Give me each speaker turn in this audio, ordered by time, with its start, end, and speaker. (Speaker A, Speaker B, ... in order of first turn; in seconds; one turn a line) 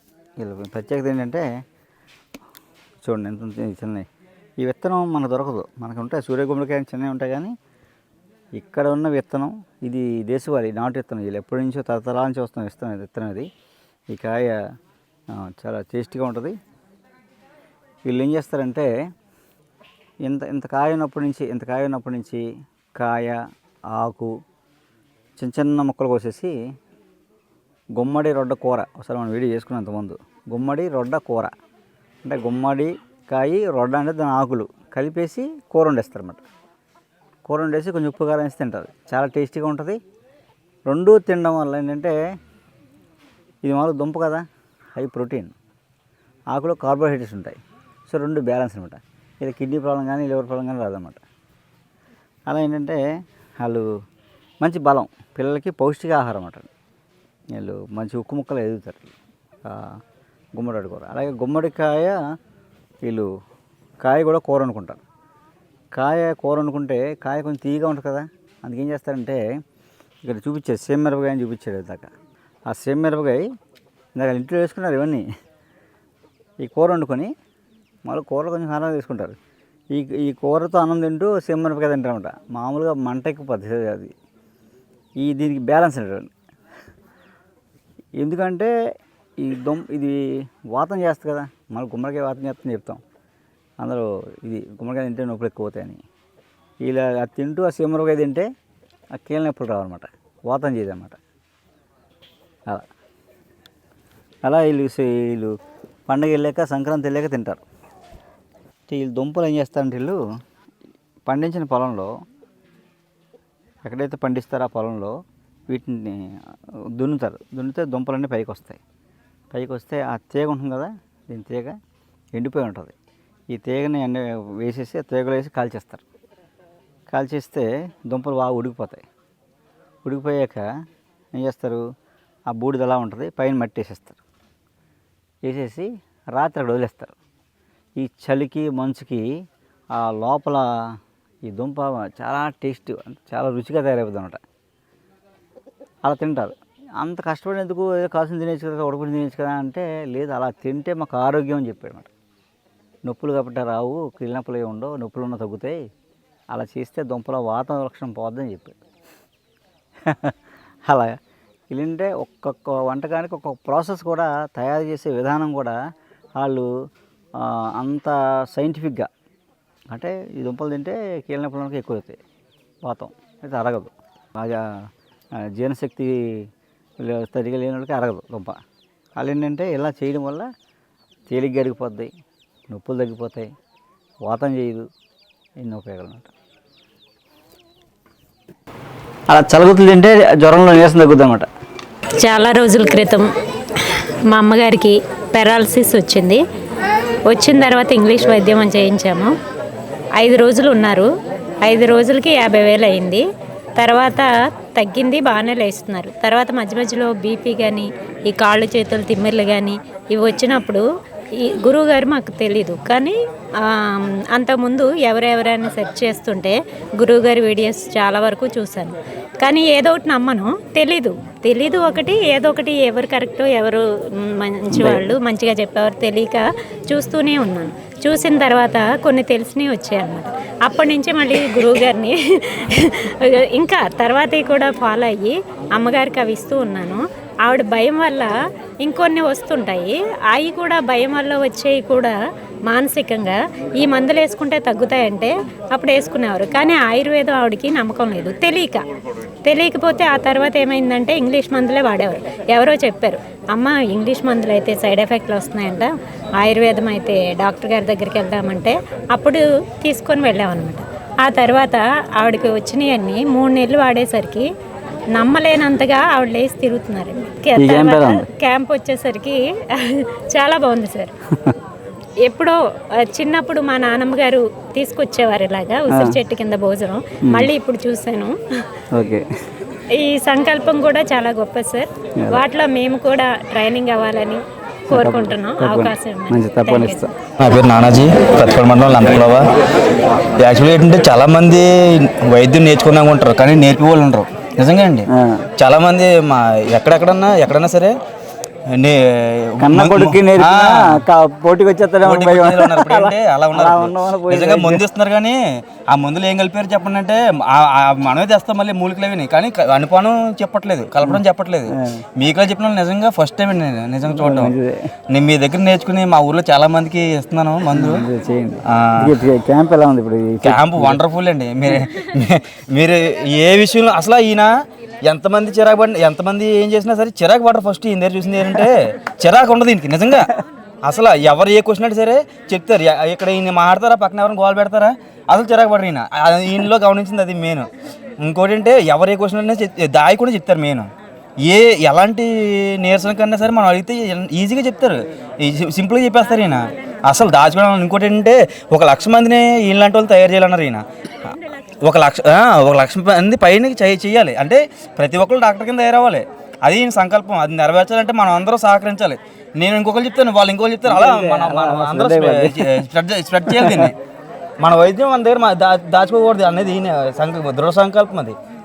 Speaker A: 0.4-1.4
Speaker A: 3.0-4.1
Speaker A: 4.6-7.5
Speaker A: 8.6-13.5
Speaker A: 14.1-14.6
Speaker A: 15.3-16.6
Speaker A: 18.1-18.9
Speaker A: 20.2-22.4
Speaker A: 23.0-23.4
Speaker A: 23.9-24.3
Speaker A: 25.4-26.5
Speaker A: 28.0-31.5
Speaker A: 32.2-36.4
Speaker A: 37.5-40.0
Speaker A: 40.9-42.1
Speaker A: 43.6-44.4
Speaker A: 45.0-45.5
Speaker A: 46.5-47.6
Speaker A: 48.1-51.2
Speaker A: 52.5-53.0
Speaker A: 53.6-53.9
Speaker A: 54.6-56.7
Speaker A: 57.5-59.1
Speaker A: 59.6-60.0
Speaker A: 60.6-62.2
Speaker A: 63.0-63.3
Speaker A: 64.0-65.0
Speaker A: 65.9-69.4
Speaker A: 70.2-72.1
Speaker A: 72.7-73.5
Speaker A: 74.1-75.2
Speaker A: 76.6-77.3
Speaker A: 78.1-79.4
Speaker A: 79.9-84.1
Speaker A: 85.2-86.3
Speaker A: 88.2-88.7
Speaker A: 89.4-93.0
Speaker A: 93.8-96.0
Speaker A: 96.8-98.5
Speaker A: 99.1-101.2
Speaker A: 104.4-105.5
Speaker A: 106.1-107.6
Speaker A: 108.9-110.2
Speaker A: 111.2-112.1
Speaker A: 113.8-115.1
Speaker A: 115.7-116.3
Speaker A: 117.0-118.8
Speaker A: 119.5-121.8
Speaker A: 122.3-122.9
Speaker A: 123.5-126.0
Speaker A: 127.1-129.0
Speaker A: 130.0-130.7
Speaker A: 131.3-131.8
Speaker A: 132.5-134.2
Speaker A: 135.4-137.2
Speaker A: 138.0-139.2
Speaker A: 139.9-140.7
Speaker A: 141.5-144.4
Speaker A: 146.0-152.1
Speaker A: 153.1-155.8
Speaker A: 156.5-158.8
Speaker A: 160.1-160.3
Speaker A: 160.9-161.2
Speaker A: 161.7-165.8
Speaker A: 166.4-166.7
Speaker A: 167.4-169.1
Speaker A: 169.9-172.2
Speaker A: 172.8-174.7
Speaker A: 175.5-176.5
Speaker A: 177.0-178.6
Speaker A: 179.2-180.5
Speaker A: 181.3-182.1
Speaker A: 182.7-183.5
Speaker A: 184.2-184.9
Speaker A: 185.6-186.3
Speaker A: 189.3-191.5
Speaker B: 192.2-193.3
Speaker B: 193.8-196.4
Speaker B: 197.3-199.3
Speaker B: 200.2-201.1
Speaker B: 201.6-203.2
Speaker B: 203.8-210.8
Speaker B: 211.4-242.1
Speaker A: 224.7-225.1
Speaker B: 242.7-248.8
Speaker B: 249.4-264.5
Speaker B: 265.1-271.1
Speaker A: 267.6-268.3
Speaker B: 272.2-278.3
Speaker A: 275.9-276.2
Speaker A: 278.9-279.2
Speaker B: 279.9-287.1
Speaker A: 284.9-287.1
Speaker C: 287.4-289.4
Speaker C: 290.3-295.1
Speaker A: 295.1-295.4
Speaker C: 295.6-297.9
Speaker C: 298.7-301.0
Speaker A: 299.6-304.8
Speaker C: 302.0-305.4
Speaker C: 305.9-314.5
Speaker A: 311.0-312.0
Speaker A: 314.1-314.8
Speaker C: 315.1-318.1
Speaker A: 317.7-321.0
Speaker C: 318.7-319.1
Speaker C: 320.4-324.5
Speaker C: 325.0-330.3
Speaker C: 330.8-337.7
Speaker C: 338.2-340.9
Speaker C: 341.4-364.0
Speaker B: 346.4-347.0
Speaker A: 360.9-362.8
Speaker A: 363.4-363.9
Speaker C: 364.6-368.4